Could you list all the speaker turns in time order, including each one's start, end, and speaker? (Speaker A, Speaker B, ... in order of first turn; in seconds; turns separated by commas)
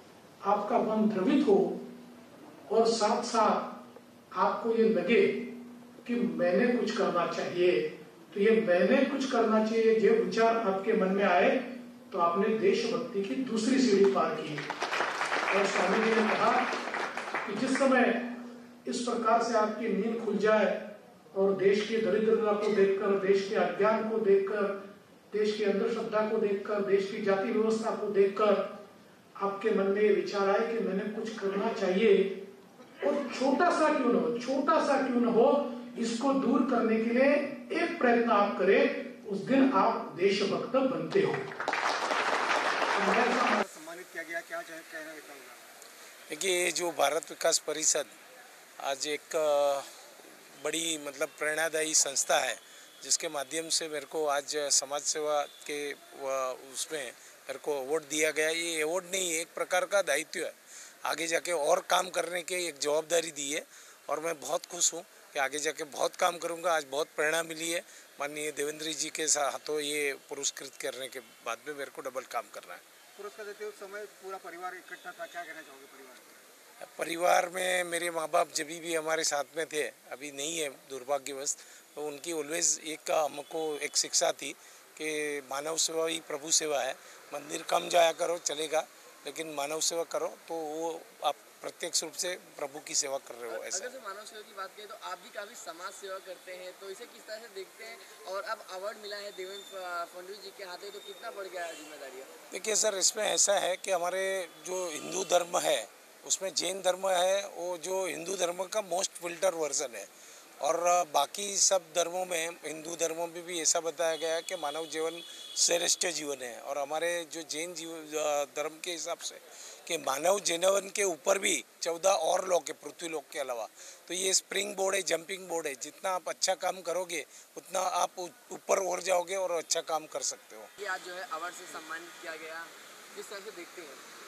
Speaker A: 0.4-1.8, Speaker A: 2.7-3.7, Speaker A: 4.3-5.5, Speaker A: 6.0-14.6, Speaker A: 15.5-16.7, Speaker A: 17.4-18.3, Speaker A: 18.9-20.8, Speaker A: 21.3-24.7, Speaker A: 25.3-28.6, Speaker A: 29.4-32.4, Speaker A: 33.0-41.5, Speaker A: 42.9-43.6, Speaker B: 43.3-45.6, Speaker C: 46.3-48.1, Speaker C: 48.8-49.9, Speaker C: 50.6-72.8, Speaker B: 73.2-76.4, Speaker C: 76.9-93.9, Speaker D: 93.5-102.3, Speaker C: 102.5-110.1, Speaker C: 110.6-130.7, Speaker D: 130.8-134.0